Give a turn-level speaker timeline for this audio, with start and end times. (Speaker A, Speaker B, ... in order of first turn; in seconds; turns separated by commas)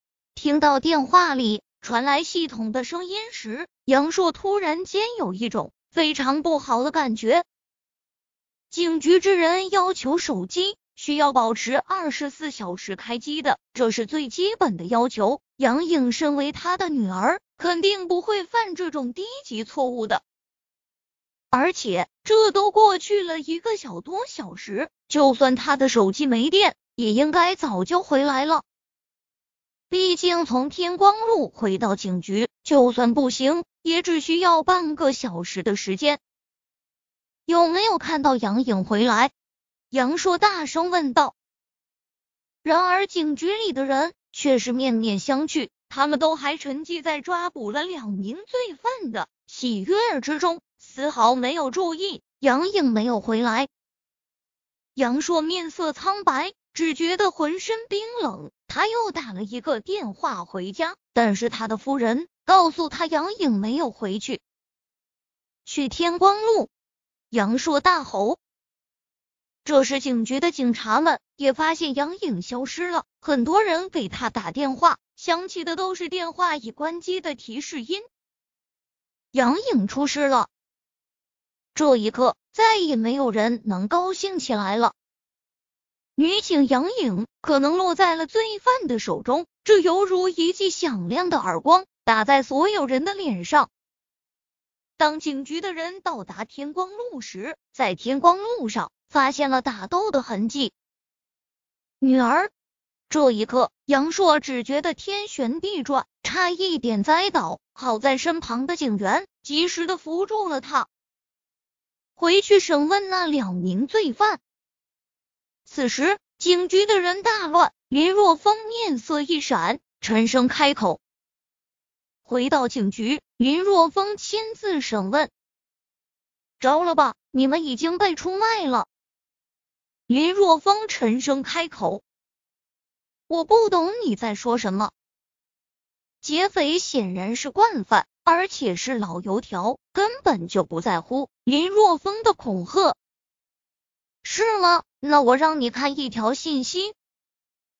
Speaker A: 0.3-7.5, Speaker A: 8.7-20.2, Speaker A: 21.5-28.6, Speaker A: 29.9-36.2, Speaker A: 37.5-39.3, Speaker A: 39.9-41.4, Speaker A: 42.6-53.7, Speaker A: 55.0-64.4, Speaker A: 65.7-66.7, Speaker A: 67.3-68.4, Speaker A: 69.6-78.1, Speaker A: 79.3-80.5, Speaker A: 81.8-84.9, Speaker A: 86.2-93.7, Speaker A: 95.0-100.7, Speaker A: 102.0-102.5, Speaker A: 103.1-110.9, Speaker A: 112.2-114.4, Speaker A: 115.7-121.0, Speaker A: 122.2-125.3, Speaker A: 126.6-128.9, Speaker A: 130.1-132.0, Speaker A: 133.3-134.9, Speaker A: 136.2-143.0, Speaker A: 144.2-146.9